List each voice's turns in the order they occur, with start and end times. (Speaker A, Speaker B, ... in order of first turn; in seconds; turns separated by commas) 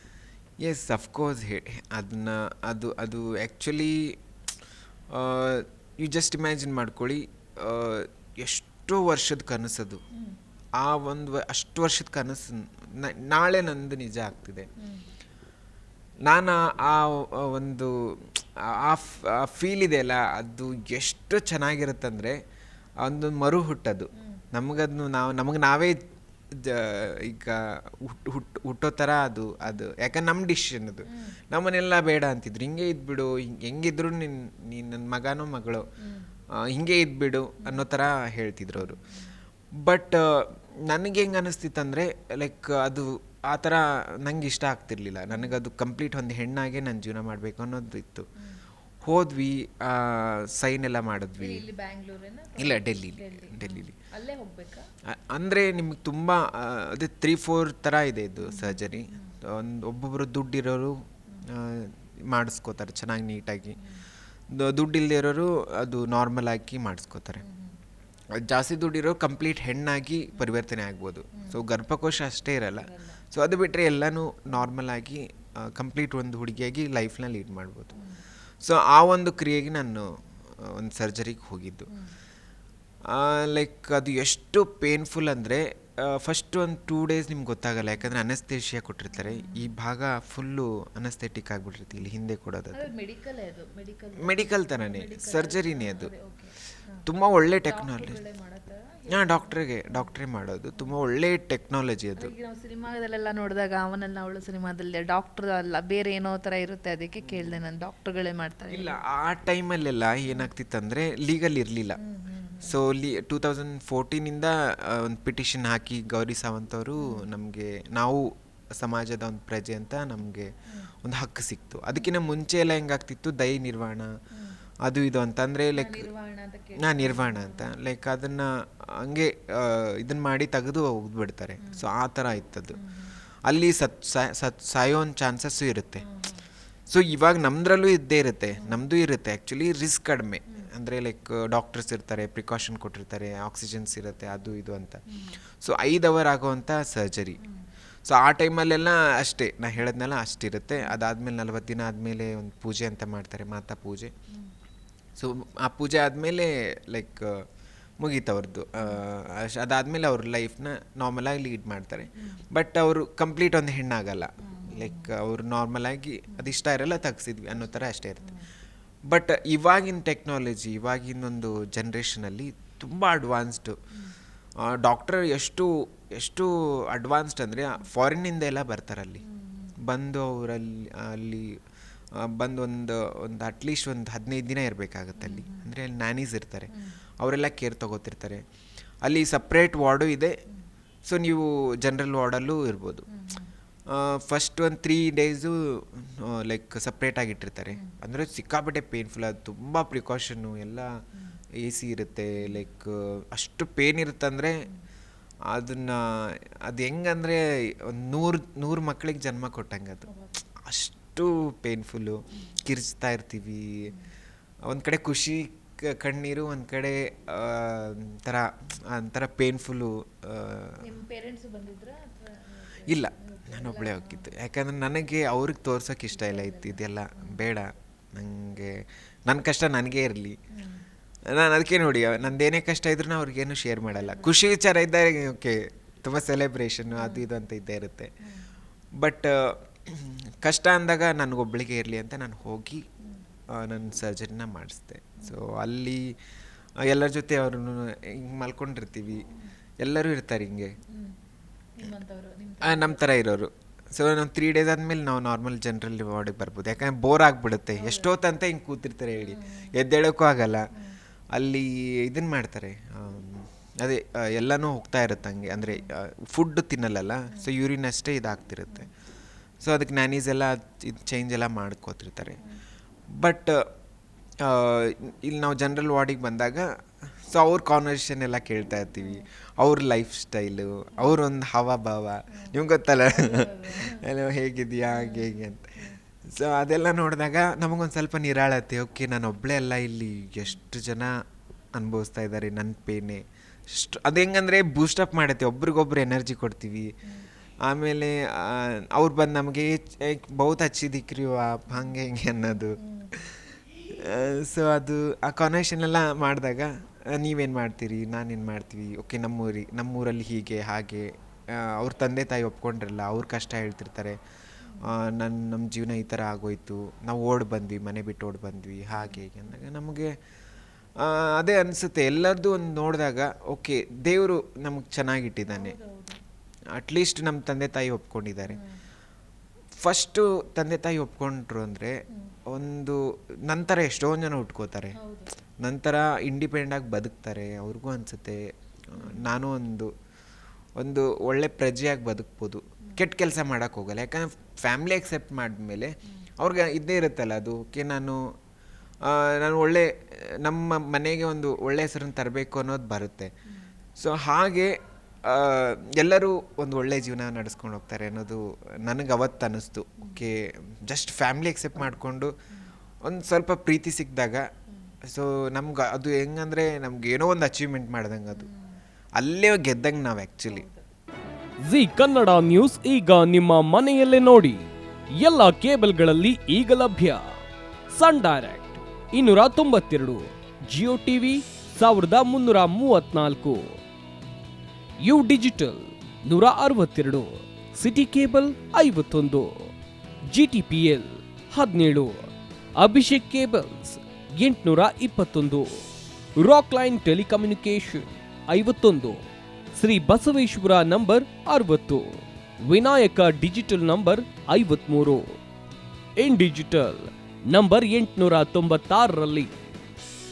Speaker A: 0.6-4.2, Speaker A: 5.1-10.0, Speaker A: 10.8-14.7, Speaker A: 16.3-22.4, Speaker A: 23.0-26.0, Speaker A: 26.5-35.9, Speaker B: 31.1-31.4, Speaker B: 36.0-36.3, Speaker A: 36.6-39.0, Speaker B: 38.8-39.2, Speaker A: 39.8-48.3, Speaker B: 45.3-45.6, Speaker A: 49.0-51.6, Speaker B: 51.4-54.9, Speaker A: 52.6-54.0, Speaker A: 55.1-61.0, Speaker B: 58.4-59.4, Speaker A: 61.5-63.8, Speaker A: 64.5-67.4, Speaker B: 67.4-67.8, Speaker A: 68.4-77.9, Speaker B: 71.3-71.6, Speaker B: 72.8-73.2, Speaker B: 78.0-78.2, Speaker A: 78.6-80.1, Speaker A: 80.6-81.9, Speaker A: 83.1-92.9, Speaker B: 89.1-89.7, Speaker B: 92.7-97.0, Speaker A: 94.2-96.1, Speaker A: 97.1-98.2, Speaker B: 97.7-100.1, Speaker A: 99.1-102.3, Speaker B: 102.2-108.9, Speaker A: 107.3-107.6, Speaker A: 108.7-112.0, Speaker B: 112.0-112.8, Speaker A: 112.6-120.5, Speaker B: 117.0-117.3, Speaker A: 121.0-124.1, Speaker A: 124.8-126.1, Speaker B: 125.8-127.7, Speaker A: 126.8-132.8, Speaker B: 132.8-133.2, Speaker A: 133.5-136.0, Speaker B: 136.0-136.4, Speaker A: 136.9-145.0, Speaker B: 145.1-145.4, Speaker A: 145.6-147.4, Speaker A: 148.1-154.1, Speaker A: 155.2-157.4, Speaker A: 158.0-168.3, Speaker B: 164.4-165.1, Speaker B: 167.6-168.5, Speaker A: 169.1-173.8, Speaker A: 174.6-179.2, Speaker B: 179.2-179.8, Speaker A: 179.8-181.6, Speaker A: 182.2-188.4, Speaker B: 185.2-185.7, Speaker A: 189.0-190.4, Speaker A: 191.1-193.1, Speaker B: 193.1-193.5, Speaker A: 193.9-200.9, Speaker A: 201.6-204.6, Speaker A: 205.5-210.1, Speaker B: 210.1-210.4, Speaker A: 210.6-213.9, Speaker A: 214.7-220.8, Speaker B: 220.8-224.3, Speaker A: 222.9-228.8, Speaker B: 226.1-227.4, Speaker A: 229.3-230.3, Speaker B: 230.5-230.8, Speaker A: 231.3-238.1, Speaker B: 233.9-234.3, Speaker B: 236.9-237.2, Speaker A: 239.0-242.8, Speaker A: 243.5-246.1, Speaker A: 246.8-249.2, Speaker A: 249.8-250.7, Speaker B: 251.8-253.1, Speaker A: 252.6-260.7, Speaker B: 257.8-258.1, Speaker B: 259.2-259.7, Speaker A: 261.3-268.9, Speaker A: 269.6-272.4, Speaker A: 273.1-273.7, Speaker A: 274.4-285.8, Speaker B: 282.3-284.0, Speaker B: 284.9-286.0, Speaker A: 286.3-291.1, Speaker A: 291.8-296.9, Speaker A: 297.7-314.2, Speaker B: 302.8-303.1, Speaker A: 314.8-320.1, Speaker B: 319.0-319.2, Speaker A: 321.0-325.8, Speaker B: 325.5-326.2, Speaker A: 326.8-328.6, Speaker B: 328.5-328.8, Speaker A: 329.8-331.9, Speaker B: 332.1-332.4, Speaker A: 332.5-334.9, Speaker B: 335.0-335.3, Speaker A: 335.6-338.4, Speaker A: 338.9-339.9, Speaker B: 339.0-339.3, Speaker A: 340.8-348.2, Speaker A: 349.1-353.3, Speaker A: 354.0-354.7, Speaker A: 355.2-362.3, Speaker B: 360.0-360.3, Speaker A: 363.1-364.5, Speaker A: 365.1-368.5, Speaker B: 368.4-368.8, Speaker A: 369.2-370.6, Speaker B: 370.5-370.8, Speaker C: 371.7-374.7, Speaker C: 375.2-377.3, Speaker C: 377.9-383.8, Speaker C: 385.0-389.7, Speaker C: 390.3-395.8, Speaker C: 396.4-405.4, Speaker C: 406.2-409.5